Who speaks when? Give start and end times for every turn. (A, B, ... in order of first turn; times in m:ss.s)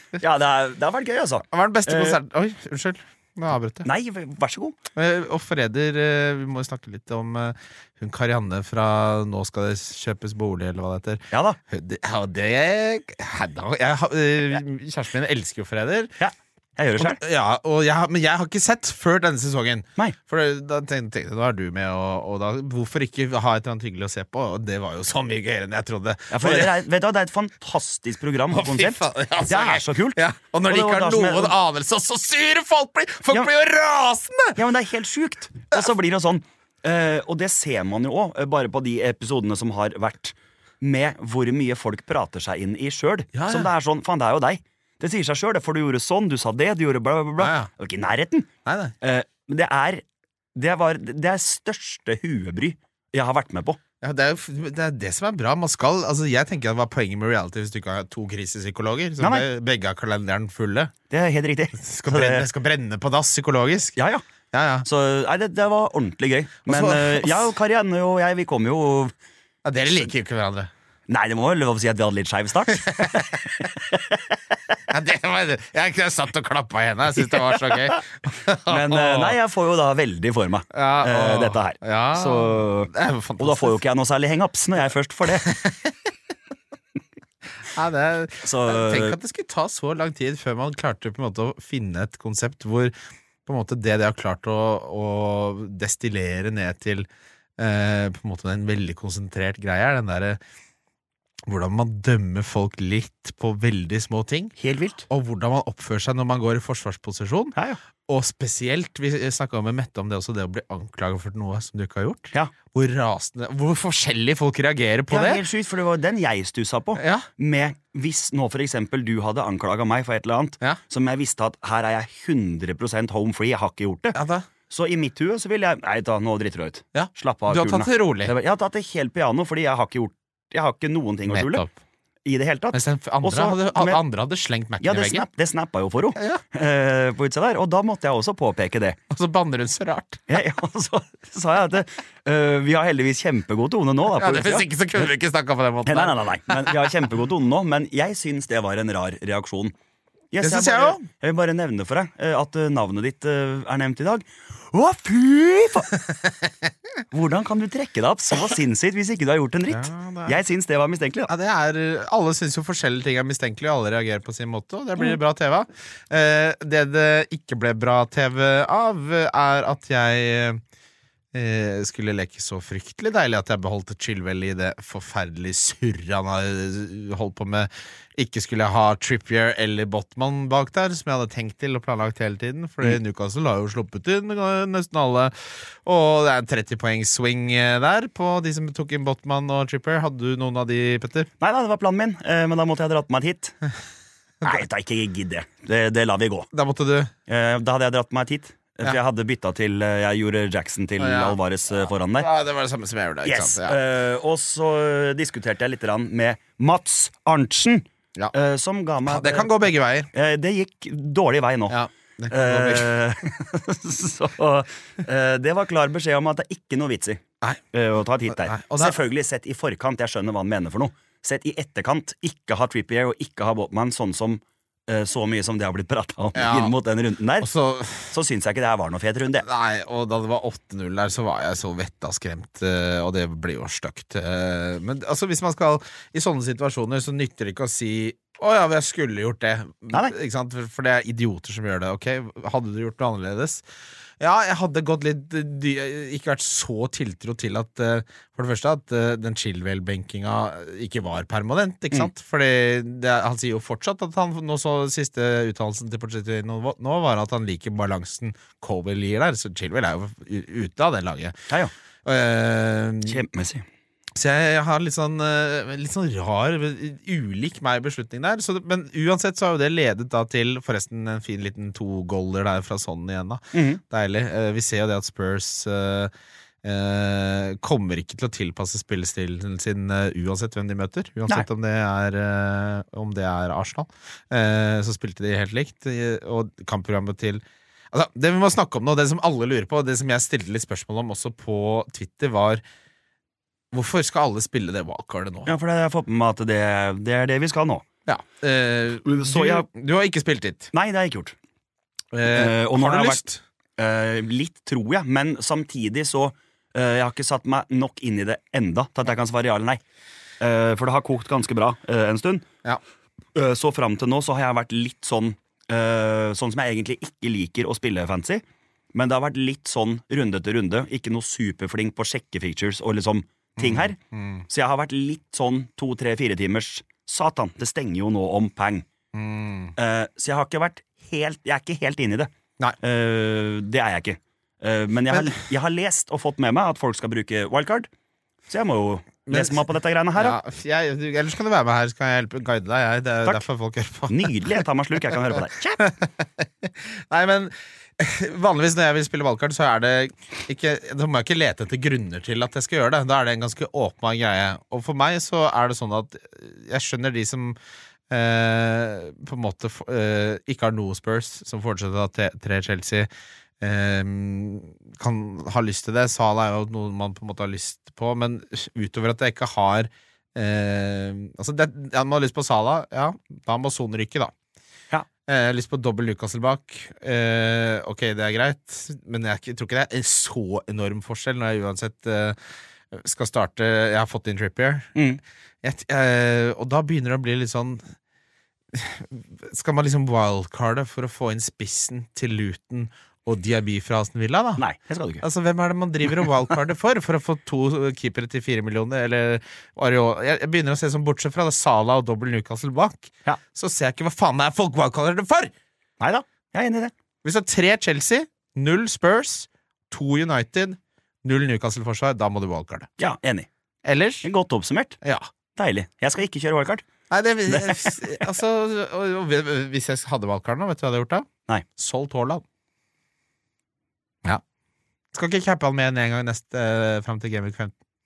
0:00.1-0:02.2 A
0:01.5-0:03.9 B
0:03.8-0:04.8 A
0:05.0-0:16.1 B
0:11.3-0:11.6 A
0:16.2-0:17.2 A
0:17.0-0:26.8 B
0:26.3-0:31.5 A
0:28.5-0:34.6 B
0:34.6-0:48.5 A
0:43.3-0:43.7 B
0:47.4-0:47.7 B
0:48.6-0:48.9 B
0:49.0-0:50.0 A
0:50.5-0:53.8 A
0:54.0-1:00.9 B
0:59.2-0:59.5 A
1:01.1-1:02.5 A
1:01.8-1:04.0 B
1:04.0-1:04.2 A
1:04.5-1:04.8 B
1:04.8-1:09.1 A
1:06.6-1:07.5 B
1:09.6-1:10.7 B
1:11.1-1:14.4 A
1:12.8-1:13.4 B
1:14.9-1:19.4 B
1:17.4-1:18.0 A
1:18.7-1:25.6 A
1:20.7-1:23.8 B
1:25.3-1:25.9 B
1:27.7-1:32.9 B
1:28.4-1:29.2 A
1:33.4-1:37.1 B
1:37.6-1:40.4 B
1:41.5-1:44.6 B
1:44.6-1:45.0 A
1:45.1-1:47.6 B
1:48.1-1:55.4 B
1:55.1-2:04.2 A
1:57.0-1:57.3 B
2:04.1-2:04.4 B
2:04.7-2:11.6 A
2:06.9-2:08.3 B
2:11.3-2:11.7 B
2:12.2-2:14.0 A
2:12.7-2:15.2 B
2:14.8-2:19.0 A
2:16.2-2:16.4 B
2:19.1-2:20.4 B
2:20.3-2:24.7 A
2:24.1-2:26.8 B
2:25.8-2:29.7 A
2:30.3-2:35.9 A
2:30.4-2:31.0 B
2:37.1-2:41.3 A
2:39.7-2:40.4 B
2:41.3-2:50.6 B
2:51.3-3:11.3 B
3:11.4-3:13.6 A
3:14.4-3:16.5 A
3:16.5-3:17.1 B
3:17.3-3:22.3 A
3:21.0-3:23.8 B
3:23.2-3:29.5 A
3:29.0-3:30.1 B
3:30.1-3:37.2 A
3:31.7-3:33.0 B
3:37.7-3:47.5 A
3:38.3-3:39.0 B
3:46.3-3:46.7 B
3:47.4-3:48.1 B
3:48.0-3:49.4 A
3:49.4-4:03.6 B
4:04.2-4:21.4 B
4:22.0-4:23.2 B
4:23.0-4:23.6 A
4:24.1-4:36.1 B
4:33.5-4:33.8 A
4:36.6-4:52.6 B
4:53.7-4:55.5 B
4:55.4-4:57.8 A
4:58.0-5:00.7 B
4:59.0-4:59.7 A
5:00.7-5:01.3 A
5:02.1-5:03.4 B
5:02.2-5:03.2 A
5:03.8-5:09.8 A
5:10.4-5:12.5 A
5:13.3-5:18.4 A
5:18.9-5:24.0 A
5:23.6-5:24.4 B
5:24.5-5:28.8 A
5:29.1-5:29.7 B
5:29.8-5:32.3 A
5:32.8-5:37.9 A
5:38.5-5:40.4 A
5:39.3-5:39.6 B
5:40.1-5:44.6 B
5:44.1-5:45.9 A
5:45.8-5:57.6 B
5:58.1-6:03.1 B
6:03.6-6:14.3 B
6:15.2-6:22.4 B
6:22.9-6:24.9 B
6:24.9-6:25.2 A
6:25.6-6:27.9 B
6:28.7-6:34.6 B
6:34.6-6:35.2 A
6:35.2-6:45.5 B
6:46.0-6:46.9 A
6:47.2-6:52.9 B
6:53.0-6:53.5 A
6:53.8-6:54.3 B
6:54.2-6:55.0 A
6:55.0-6:55.3 B
6:55.6-6:56.8 A
6:57.1-7:02.4 B
6:57.5-6:58.0 A
7:05.1-7:07.7 B